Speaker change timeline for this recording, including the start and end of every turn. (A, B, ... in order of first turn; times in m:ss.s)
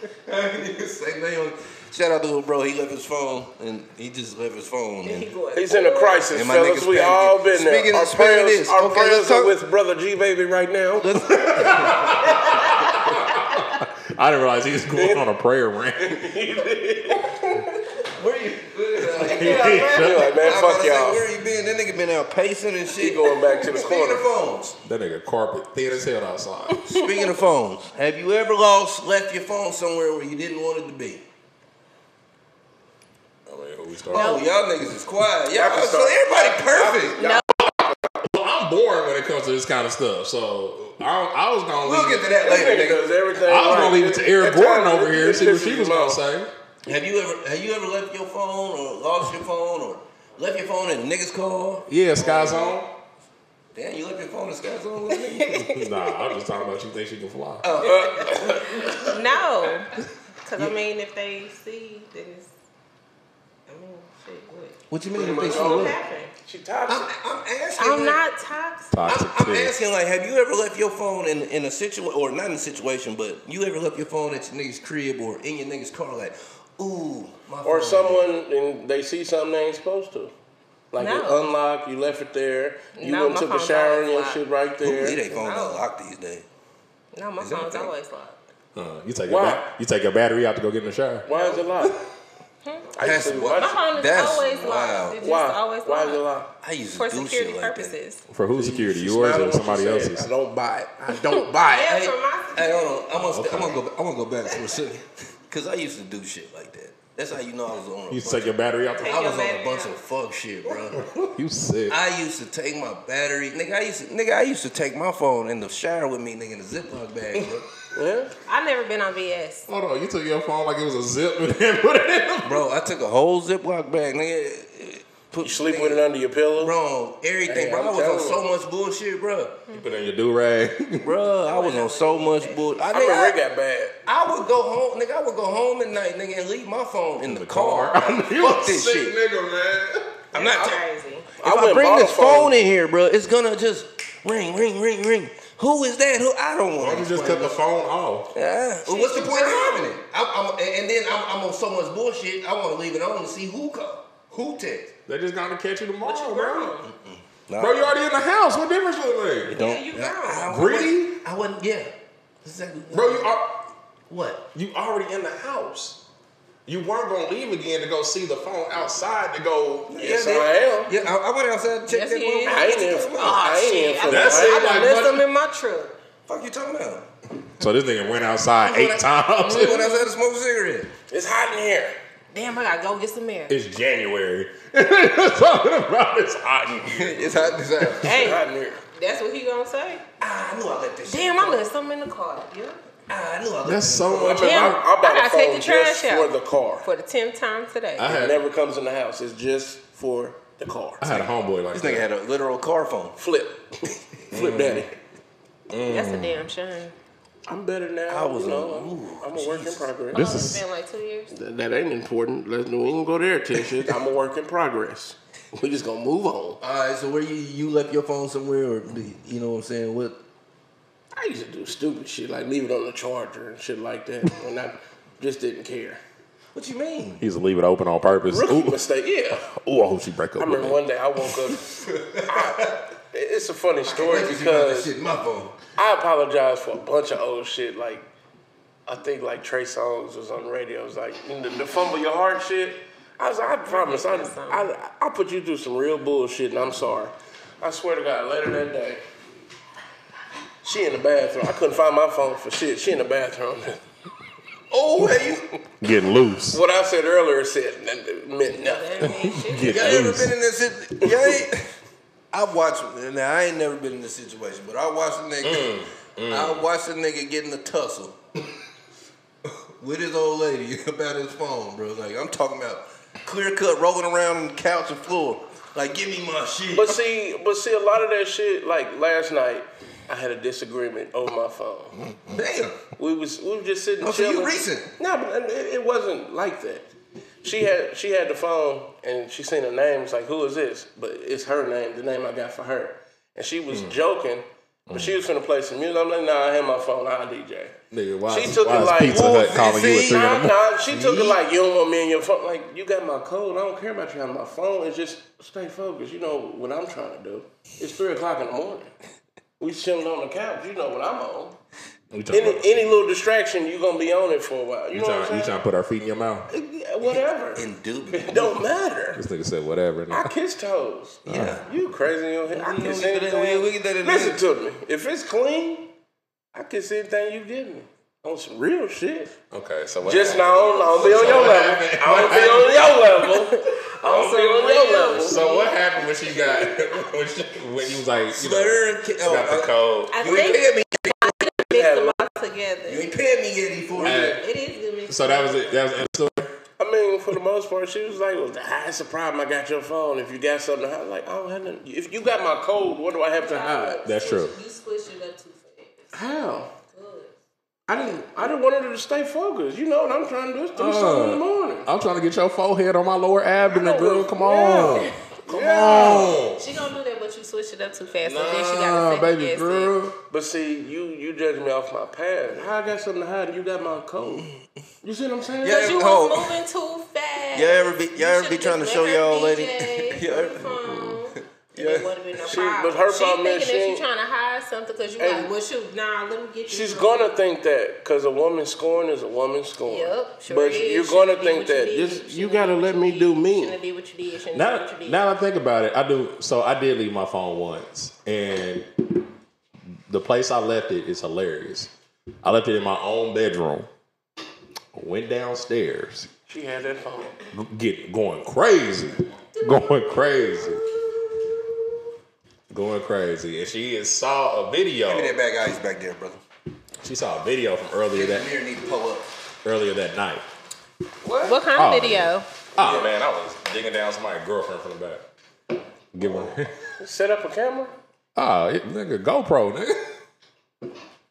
0:00.2-0:05.3 A
0:05.0-0:06.2 B
0:05.6-0:11.2 C
0:06.3-0:09.6 A
0:11.0-0:12.4 A
0:11.3-0:16.3 D
0:12.4-0:12.9 B
0:14.9-0:15.2 C
0:16.0-0:17.6 C
0:18.1-0:24.8 A
0:19.3-0:21.2 C
0:19.3-0:20.4 D
0:19.3-0:20.1 B
0:23.0-0:24.3 C
0:24.8-0:26.9 D
0:26.8-0:31.2 A
0:26.9-0:27.2 B
0:33.5-0:34.4 D
0:34.1-0:37.2 A
0:34.1-0:34.5 B
0:35.5-0:37.4 C
0:37.2-0:37.5 B
0:37.6-0:42.3 D
0:41.8-0:43.1 A
0:42.4-0:46.2 C
0:43.4-0:46.5 D
0:46.8-0:52.8 A
0:51.9-0:52.9 D
0:53.7-0:55.6 A
0:55.1-0:56.4 B
0:55.6-0:57.7 D
0:57.6-0:59.0 A
0:57.8-0:59.9 B
0:57.8-0:59.0 C
1:00.4-1:02.5 B
1:03.7-1:04.8 B
1:04.9-1:06.0 A
1:05.1-1:07.1 C
1:05.4-1:06.3 B
1:06.9-1:08.2 A
1:07.8-1:09.0 B
1:08.9-1:09.8 D
1:09.0-1:18.3 A
1:17.6-1:20.3 C
1:20.9-1:25.2 C
1:21.0-1:21.5 B
1:23.0-1:24.4 B
1:24.8-1:26.5 A
1:25.3-1:25.8 B
1:27.1-1:28.4 B
1:27.4-1:27.9 A
1:28.8-1:31.3 D
1:29.3-1:29.7 C
1:31.2-1:32.0 C
1:31.3-1:31.7 B
1:32.6-1:32.9 B
1:33.0-1:33.8 C
1:33.0-1:35.2 A
1:33.5-1:36.2 B
1:35.2-1:36.5 C
1:36.6-1:38.0 A
1:36.9-1:38.2 B
1:38.3-1:40.3 D
1:38.5-1:42.0 C
1:41.2-1:43.1 B
1:41.8-1:51.1 A
1:43.2-1:43.8 D
1:48.1-1:49.2 D
1:49.0-1:50.0 B
1:51.0-1:52.0 D
1:51.9-1:57.6 A
1:57.4-1:58.3 C
1:58.5-1:59.7 B
1:59.7-2:02.6 D
2:02.4-2:06.0 A
2:05.4-2:06.8 C
2:06.6-2:09.6 A
2:07.5-2:08.4 C
2:09.7-2:11.1 D
2:11.0-2:13.4 A
2:11.4-2:12.7 B
2:12.9-2:14.0 C
2:14.1-2:19.2 A
2:17.2-2:20.2 D
2:20.3-2:20.8 A
2:20.3-2:21.3 B
2:21.4-2:27.6 A
2:21.4-2:22.6 C
2:26.8-2:28.3 D
2:28.3-2:34.9 A
2:28.8-2:29.9 B
2:35.1-2:36.8 D
2:36.0-2:36.9 B
2:36.9-2:37.8 A
2:37.6-2:39.6 D
2:39.5-2:41.9 A
2:39.5-2:40.5 B
2:40.5-2:41.2 D
2:42.4-2:43.3 A
2:42.9-2:43.6 D
2:44.1-2:44.4 A
2:44.5-2:46.0 D
2:46.6-2:50.0 D
2:49.9-2:53.5 A
2:49.9-2:50.9 C
2:51.9-2:55.9 B
2:52.4-2:54.7 C
2:54.1-2:55.3 D
2:56.3-2:57.1 A
2:57.6-2:59.8 D
2:58.6-3:00.9 A
2:59.4-3:00.1 B
3:01.1-3:02.0 C
3:02.3-3:03.6 B
3:03.5-3:07.6 D
3:06.8-3:08.3 A
3:08.0-3:10.0 B
3:08.1-3:08.8 C
3:10.2-3:11.7 A
3:11.1-3:12.8 B
3:13.1-3:14.5 A
3:13.6-3:14.8 D
3:14.2-3:16.9 C
3:14.4-3:16.3 B
3:16.8-3:18.1 B
3:18.0-3:18.4 D
3:18.0-3:21.3 C
3:21.0-3:22.1 D
3:21.7-3:23.2 A
3:23.2-3:24.9 C
3:24.3-3:24.9 D
3:25.7-3:26.4 D
3:25.9-3:26.9 B
3:27.5-3:30.2 C
3:28.1-3:29.9 A
3:30.1-3:30.6 D
3:30.1-3:31.3 B
3:31.3-3:36.6 C
3:36.6-3:40.2 A
3:41.1-3:46.0 C
3:46.5-3:47.2 A
3:47.2-3:48.8 D
3:48.3-3:49.5 C
3:49.5-3:50.8 D
3:50.4-3:54.9 C
3:51.8-3:52.8 A
3:53.9-3:55.6 A
3:55.8-3:58.1 C
3:58.9-4:09.0 C
4:03.6-4:04.7 B
4:10.6-4:13.8 C
4:14.7-4:15.5 A
4:15.8-4:16.6 D
4:16.5-4:19.1 C
4:18.6-4:20.1 B
4:19.0-4:20.4 D
4:19.6-4:21.7 A
4:22.3-4:28.2 A
4:25.4-4:26.6 D
4:29.4-4:37.0 A
4:36.7-4:42.0 C
4:42.3-4:42.8 A
4:43.0-4:46.9 C
4:44.0-4:44.9 A
4:47.4-5:08.9 C
4:53.7-4:54.0 D
4:54.9-4:55.2 D
4:57.9-5:00.6 D
4:59.0-5:00.3 A
5:00.9-5:01.4 A
5:09.6-5:11.6 C
5:12.1-5:12.9 D
5:12.3-5:15.6 C
5:14.9-5:16.5 D
5:16.5-5:19.2 C
5:17.1-5:18.6 A
5:19.1-5:20.3 D
5:20.1-5:25.9 C
5:21.3-5:21.6 A
5:21.3-5:21.6 D
5:22.5-5:24.4 A
5:26.5-5:29.4 C
5:29.5-5:33.1 D
5:30.0-5:35.4 C
5:30.2-5:31.6 B
5:33.2-5:36.6 B
5:34.9-5:40.5 D
5:38.3-5:41.5 A
5:40.1-5:43.1 B
5:41.6-5:42.2 C
5:42.9-5:44.4 A
5:43.9-5:45.8 B
5:44.0-5:44.4 D
5:45.1-5:46.5 D
5:46.8-5:54.0 C
5:53.4-5:56.2 B
5:54.0-5:54.6 D
5:56.1-5:56.7 C
5:56.9-5:57.3 B
5:57.9-6:01.9 C
6:00.8-6:06.7 D
6:03.7-6:06.4 C
6:04.7-6:05.1 B
6:06.1-6:09.9 B
6:08.2-6:10.2 D
6:10.3-6:14.5 C
6:15.0-6:15.9 C
6:15.6-6:16.6 A
6:15.7-6:27.3 B
6:17.5-6:20.8 A
6:21.7-6:22.5 A
6:22.4-6:24.0 C
6:25.2-6:25.5 C
6:26.7-6:33.8 C
6:29.9-6:35.2 B
6:34.5-6:39.2 D
6:40.1-6:41.9 D
6:42.4-6:43.9 D
6:44.9-6:46.3 D
6:46.5-6:47.4 C
6:47.5-6:50.8 D
6:52.7-6:55.4 D
6:55.1-6:56.4 A
6:57.0-6:58.5 D
6:58.1-6:59.3 A
6:59.6-7:00.4 D
7:01.2-7:01.6 A
7:01.4-7:02.5 B
7:01.8-7:05.2 D
7:02.8-7:03.1 A
7:06.1-7:06.8 D
7:06.2-7:06.5 A
7:07.0-7:07.9 C
7:08.4-7:10.2 D